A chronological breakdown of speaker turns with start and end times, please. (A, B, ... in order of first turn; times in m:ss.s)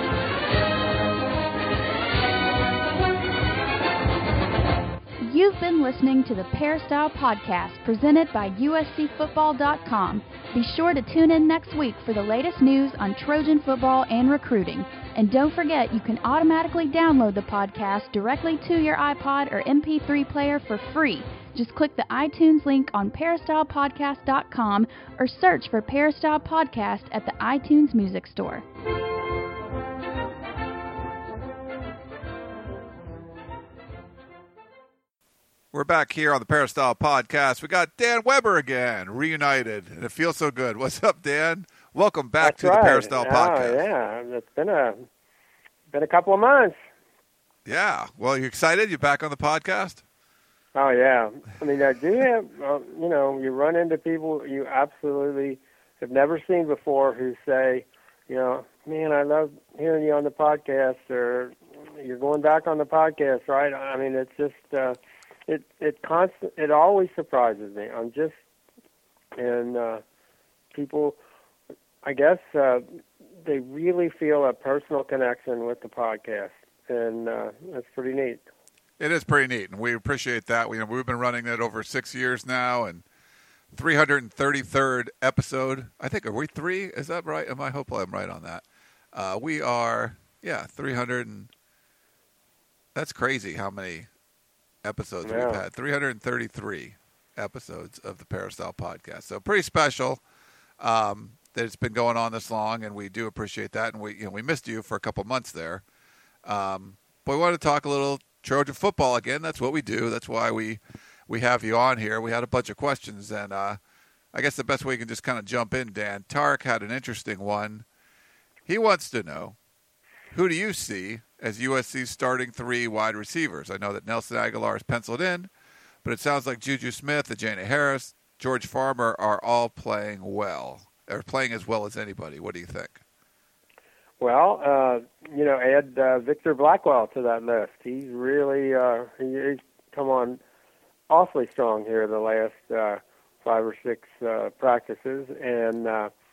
0:05.2-0:28.6 A
0:35.7-0:43.8 B
0:42.4-0:45.0 C
0:45.9-0:46.8 C
0:47.6-0:50.0 B
0:50.7-1:05.0 C
1:05.5-1:08.4 C
1:09.4-1:10.0 C
1:10.7-1:11.2 C
1:12.0-1:18.4 C
1:19.0-1:23.0 B
1:23.7-1:31.5 B
1:32.9-1:34.1 B
1:34.8-1:40.2 B
1:35.2-1:35.6 C
1:40.8-1:45.8 B
1:46.4-1:53.8 B
1:54.3-1:57.8 B
1:58.6-1:59.6 B
2:00.3-2:05.5 B
2:06.0-2:13.0 B
2:14.2-2:20.4 C
2:21.1-2:26.1 C